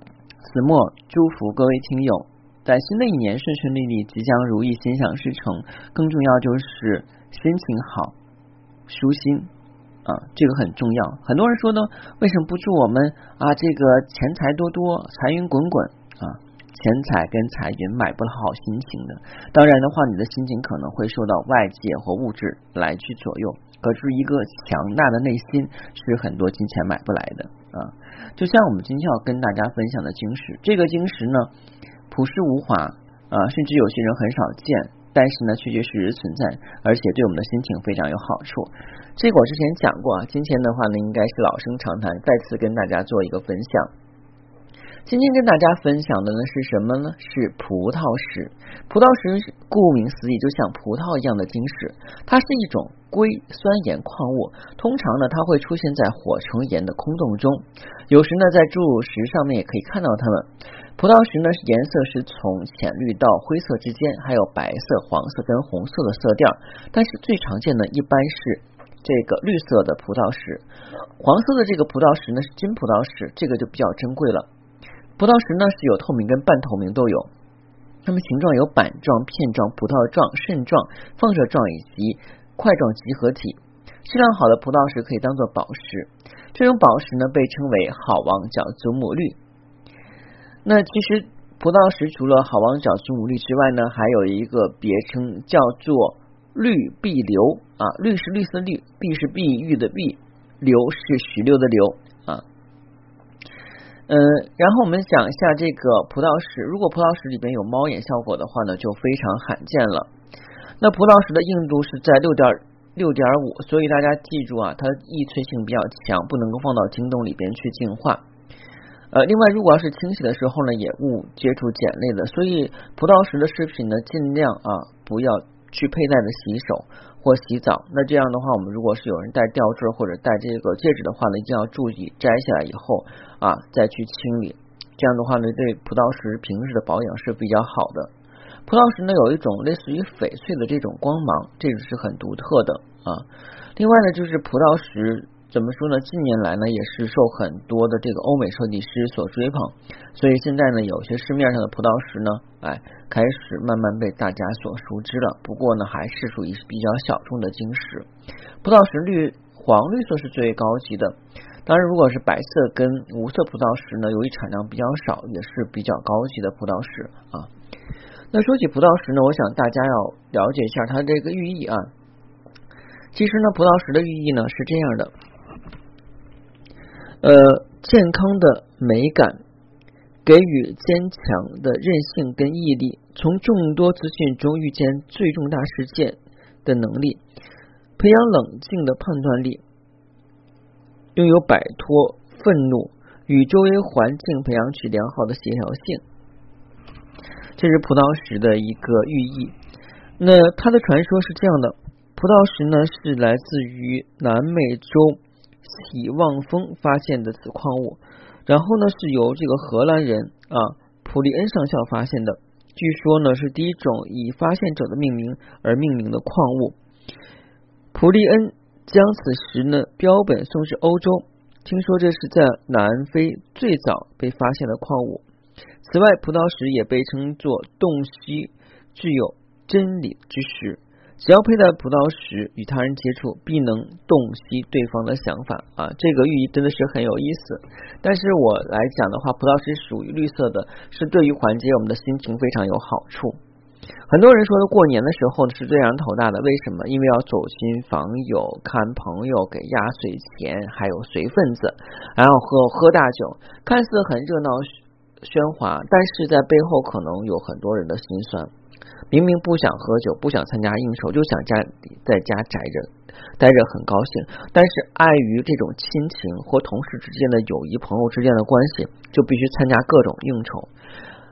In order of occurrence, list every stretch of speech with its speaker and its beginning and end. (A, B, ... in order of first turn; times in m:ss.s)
0:00.4-0:08.1 A
0:08.9-0:09.5 A
0:10.0-0:31.5 A
0:32.1-0:43.9 A
0:45.1-1:10.7 A
1:11.2-1:14.5 A
1:15.2-1:17.3 A
1:18.1-1:29.4 A
1:30.6-1:42.4 A
1:44.1-1:50.1 A
1:50.8-1:58.2 A
1:59.1-2:18.1 A
2:18.7-2:38.1 A
2:38.6-2:47.5 A
2:48.3-2:51.9 A
2:53.1-2:55.1 A
2:57.2-2:59.4 A
3:00.2-3:07.2 A
3:08.0-3:09.6 A
3:11.2-3:16.0 A
3:17.6-3:19.5 A
3:20.2-3:36.8 A
3:37.9-3:45.2 A
3:45.8-4:03.4 A
4:04.1-4:18.5 A
4:19.1-4:30.7 A